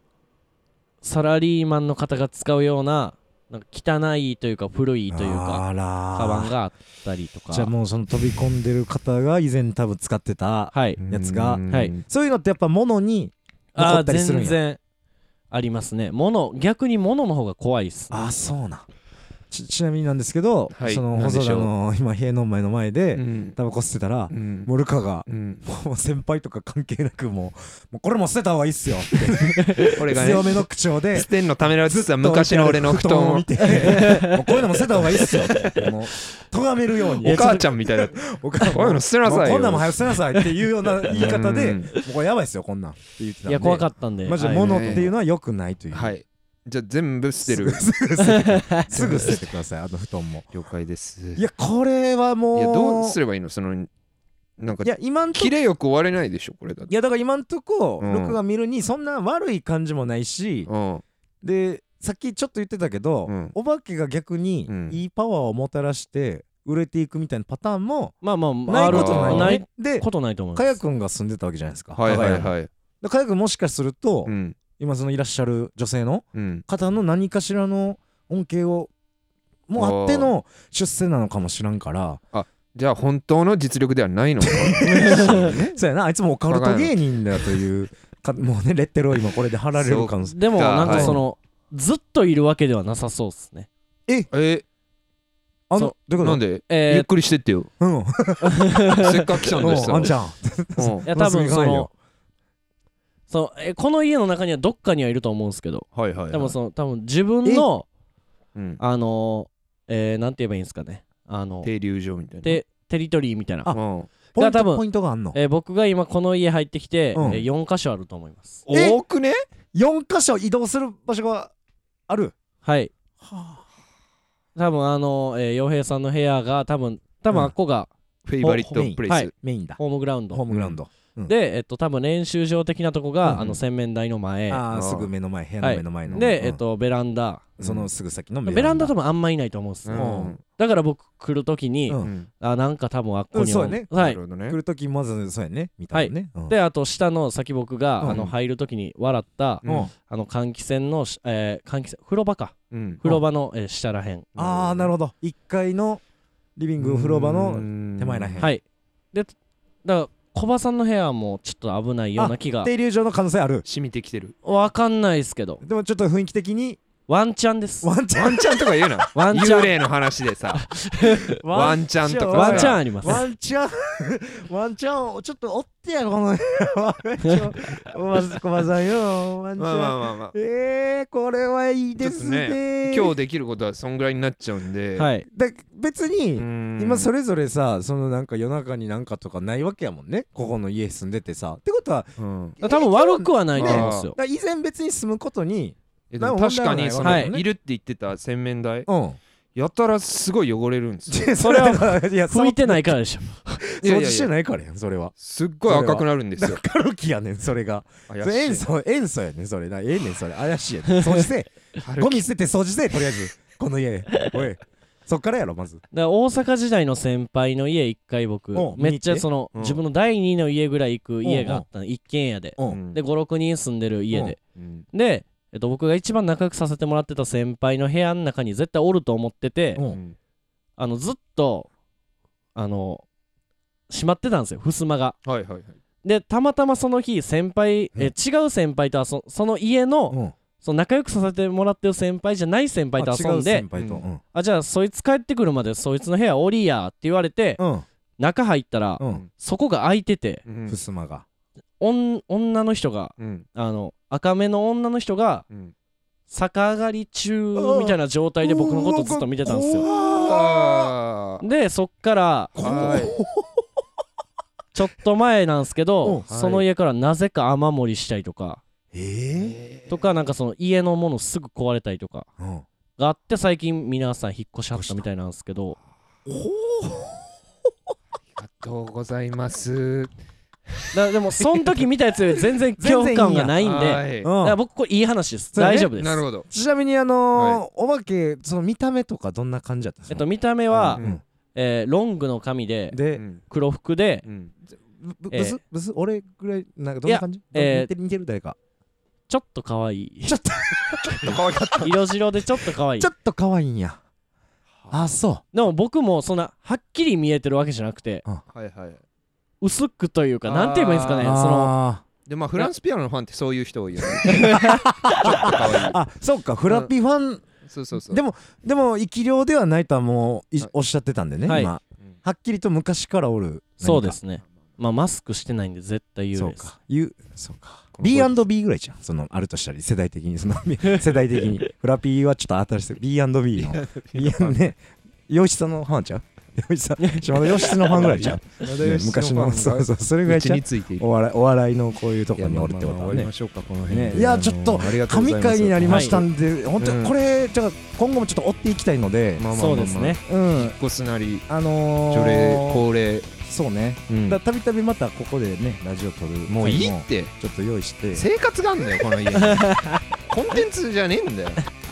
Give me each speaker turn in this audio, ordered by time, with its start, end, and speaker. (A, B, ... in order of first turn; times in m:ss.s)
0:01.0-0:07.7 A
0:05.1-0:06.5 B
0:07.5-0:14.6 B
0:10.7-0:11.0 A
0:11.0-0:12.0 C
0:13.7-0:14.8 A
0:15.5-0:18.1 A
0:18.1-0:18.9 B
0:19.5-0:31.3 B
0:20.7-0:21.7 C
0:23.1-0:23.6 C
0:24.3-0:24.7 C
0:25.2-0:25.6 C
0:29.8-0:34.2 C
0:31.9-0:46.2 B
0:33.6-0:34.4 A
0:35.2-0:35.9 C
0:37.2-0:37.7 A
0:37.2-0:40.1 C
0:41.1-0:41.9 C
0:43.5-0:45.1 A
0:44.6-0:45.1 C
0:45.9-0:47.8 C
0:47.4-0:50.5 B
0:48.2-0:48.9 A
0:49.0-0:49.3 C
0:50.5-0:51.4 C
0:51.4-0:53.2 B
0:52.5-0:53.9 C
0:54.6-0:56.9 C
0:54.8-0:55.5 B
0:56.9-1:00.7 B
0:58.0-0:58.4 C
1:00.7-1:01.0 C
1:01.4-1:08.1 B
1:03.3-1:03.5 C
1:04.7-1:05.0 C
1:08.2-1:10.8 A
1:08.7-1:18.9 B
1:08.9-1:09.6 C
1:12.0-1:12.7 C
1:14.2-1:14.6 C
1:16.4-1:16.6 C
1:19.7-1:22.2 B
1:19.8-1:20.3 C
1:22.3-1:25.8 C
1:24.4-1:31.2 B
1:24.8-1:25.7 A
1:26.5-1:27.6 C
1:29.7-1:31.2 C
1:30.3-1:33.7 A
1:34.3-1:34.6 C
1:35.7-1:36.4 B
1:36.2-1:37.7 C
1:36.7-1:37.1 A
1:37.8-1:38.8 B
1:38.4-1:39.9 A
1:38.9-1:40.1 C
1:39.6-1:41.9 B
1:40.8-1:41.1 C
1:41.1-1:41.9 A
1:43.3-1:47.9 A
1:45.9-1:46.6 C
1:48.6-1:48.8 C
1:48.8-1:51.7 A
1:51.6-1:52.6 C
1:52.4-1:53.7 A
1:53.7-1:54.1 C
1:54.4-1:55.4 B
1:54.4-1:58.6 A
1:57.1-1:57.4 B
1:58.7-1:59.4 C
1:58.7-1:59.0 B
1:59.7-2:01.5 B
2:02.1-2:02.4 B
2:02.6-2:02.9 A
2:03.2-2:03.6 B
2:04.6-2:07.9 A
2:08.2-2:09.3 C
2:08.4-2:09.8 B
2:09.1-2:10.4 A
2:10.3-2:11.3 B
2:10.5-2:10.8 C
2:11.3-2:14.6 A
2:13.3-2:13.5 C
2:14.5-2:16.6 B
2:14.7-2:15.1 C
2:15.6-2:17.6 A
2:17.6-2:17.9 C
2:17.6-2:18.9 B
2:18.4-2:24.2 A
2:19.8-2:20.4 C
2:20.0-2:20.4 B
2:22.0-2:22.3 C
2:23.3-2:26.6 B
2:23.9-2:24.6 C
2:25.9-2:34.3 A
2:28.0-2:28.2 B
2:28.0-2:28.3 C
2:29.6-2:29.9 C
2:32.7-2:33.2 C
2:34.4-2:34.9 C
2:34.4-2:36.0 B
2:36.6-2:38.5 B
2:36.8-2:38.5 C
2:38.4-2:39.3 A
2:39.8-2:42.7 A
2:42.2-2:43.6 B
2:43.6-2:44.3 C
2:44.4-2:45.6 A
2:45.6-2:46.8 B
2:47.1-2:47.9 A
2:47.8-2:48.9 B
2:48.1-2:50.7 C
2:49.1-2:49.7 A
2:50.6-2:51.4 A
2:51.3-3:03.1 B
2:51.5-2:52.8 C
2:52.3-2:53.2 A
2:59.6-3:00.4 C
3:02.0-3:05.1 C
3:05.0-3:05.2 A
3:05.3-3:12.1 B
3:06.4-3:07.1 C
3:12.2-3:12.6 C
3:12.6-3:17.4 B
3:12.6-3:14.2 A
3:13.6-3:14.1 C
3:16.1-3:18.9 C
3:17.0-3:17.3 A
3:18.9-3:19.2 B
3:19.6-3:21.3 C
3:21.1-3:23.0 B
3:21.4-3:23.6 A
3:23.6-3:25.1 B
3:23.8-3:24.3 C
3:25.2-3:26.6 C
3:25.6-3:35.8 B
3:28.1-3:28.7 C
3:31.8-3:32.2 C
3:35.9-3:44.4 A
3:38.6-3:39.3 B
3:39.6-3:39.8 C
3:41.2-3:41.6 B
3:42.6-3:43.0 C
3:44.6-3:44.9 C
3:44.9-3:49.8 A
3:49.9-3:50.2 C
3:50.8-3:51.7 A
3:52.6-3:53.0 A
3:53.9-3:55.2 A
3:55.2-3:55.8 C
3:56.0-4:03.6 A
4:03.0-4:04.2 B
4:03.8-4:04.0 C
4:04.3-4:07.6 A
4:07.6-4:07.9 B
4:08.2-4:10.4 A
4:09.0-4:09.2 B
4:10.4-4:10.8 C
4:10.7-4:11.2 B
4:11.8-4:15.4 A
4:13.2-4:13.4 C
4:16.3-4:19.9 A
4:17.6-4:20.9 B
4:20.1-4:21.4 C
4:21.4-4:23.0 A
4:22.6-4:23.6 B
4:22.6-4:23.2 C
4:24.7-4:28.6 A
4:26.0-4:26.3 B
4:26.3-4:26.6 C
4:28.9-4:29.6 B
4:29.4-4:30.0 C
4:29.9-4:32.3 A
4:32.4-4:32.6 B
4:33.0-4:35.8 A
4:34.7-4:35.0 B
4:36.2-4:37.3 B
4:38.4-4:40.1 C
4:40.9-4:46.2 A
4:41.4-4:41.8 B
4:42.8-4:43.6 B
4:43.6-4:44.3 C
4:44.2-4:44.6 B
4:45.5-4:50.3 B
4:46.0-4:46.5 C
4:47.4-4:47.6 C
4:50.1-4:51.0 A
4:50.7-4:51.2 C
4:51.6-4:54.2 A
4:52.9-4:53.2 B
4:53.2-4:53.4 C
4:54.2-4:54.5 C
4:54.9-4:58.6 B
4:55.3-4:55.6 A
4:57.0-4:57.9 A
4:59.3-5:00.4 A
5:00.2-5:02.0 B
5:01.2-5:01.9 C
5:01.8-5:03.1 A
5:03.0-5:04.0 B
5:04.9-5:05.4 B
5:05.5-5:08.2 A
5:08.5-5:09.0 C
5:09.6-5:11.7 A
5:10.4-5:11.4 C
5:11.2-5:12.0 B
5:12.2-5:16.0 C
5:14.3-5:15.6 A
5:14.3-5:24.2 B
5:17.6-5:18.2 C
5:21.4-5:21.7 A
5:23.8-5:26.7 A
5:26.3-5:43.3 B
5:28.0-5:28.3 C
5:33.6-5:34.6 C
5:37.0-5:37.5 A
5:37.7-5:41.1 C
5:42.4-5:46.3 C
5:43.9-5:49.4 B
5:45.8-5:46.2 A
5:46.8-5:47.1 C
5:49.4-5:51.4 C
5:49.5-5:50.2 A
5:50.2-5:50.8 B
5:51.5-5:52.8 B
5:52.1-5:53.3 C
5:53.4-5:58.3 B
5:54.1-5:54.4 C
5:56.5-5:57.3 C
5:58.1-6:01.6 C
5:59.4-6:00.0 A